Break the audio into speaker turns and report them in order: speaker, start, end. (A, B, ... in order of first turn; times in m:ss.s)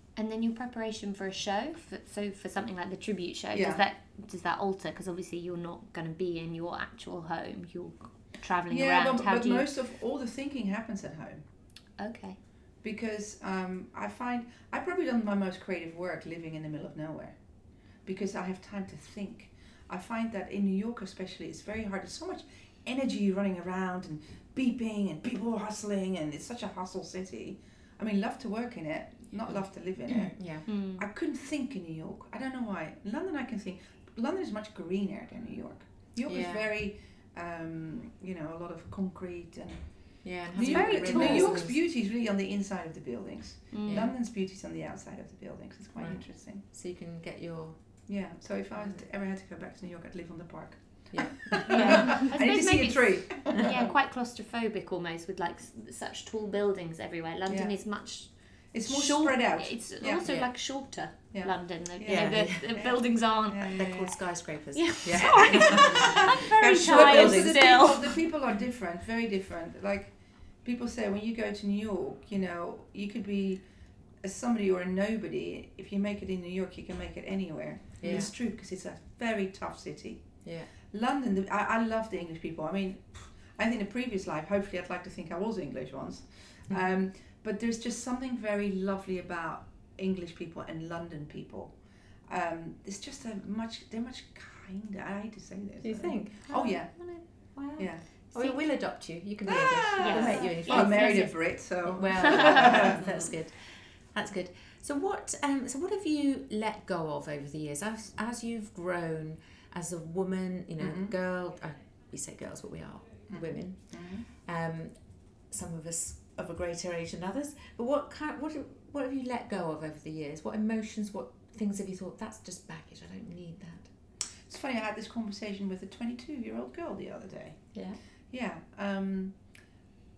0:00.2-0:09.7 A
0:03.5-0:03.8 B
0:08.7-0:11.4 B
0:12.0-0:12.4 A
0:12.8-0:17.4 B
0:18.1-0:39.8 B
0:29.5-0:30.7 C
0:30.7-0:31.0 A
0:36.3-0:36.7 C
0:40.2-0:41.8 C
0:40.5-0:46.6 B
0:40.8-0:41.6 A
0:43.7-0:44.1 A
0:43.9-0:44.1 C
0:46.0-0:47.8 C
0:48.1-0:53.9 B
0:51.1-0:52.3 C
0:51.6-0:58.3 A
0:57.5-0:57.7 B
0:58.7-1:00.3 B
0:58.8-1:03.9 A
1:00.2-1:00.5 C
1:01.3-1:04.1 B
1:02.1-1:02.8 C
1:03.6-1:07.7 C
1:04.8-1:08.2 A
1:05.0-1:10.1 B
1:10.6-1:13.6 B
1:14.2-1:20.3 B
1:18.0-1:18.3 C
1:20.4-1:20.7 C
1:20.9-1:31.7 B
1:32.3-1:36.9 B
1:35.8-1:36.7 C
1:36.5-1:37.2 A
1:37.6-1:54.9 C
1:37.8-1:38.0 B
1:39.5-1:43.1 B
1:40.0-1:41.4 A
1:42.2-1:42.9 A
1:50.8-1:51.1 B
1:53.3-1:54.2 B
1:55.5-2:03.9 C
2:04.5-2:07.6 B
2:08.3-2:09.4 B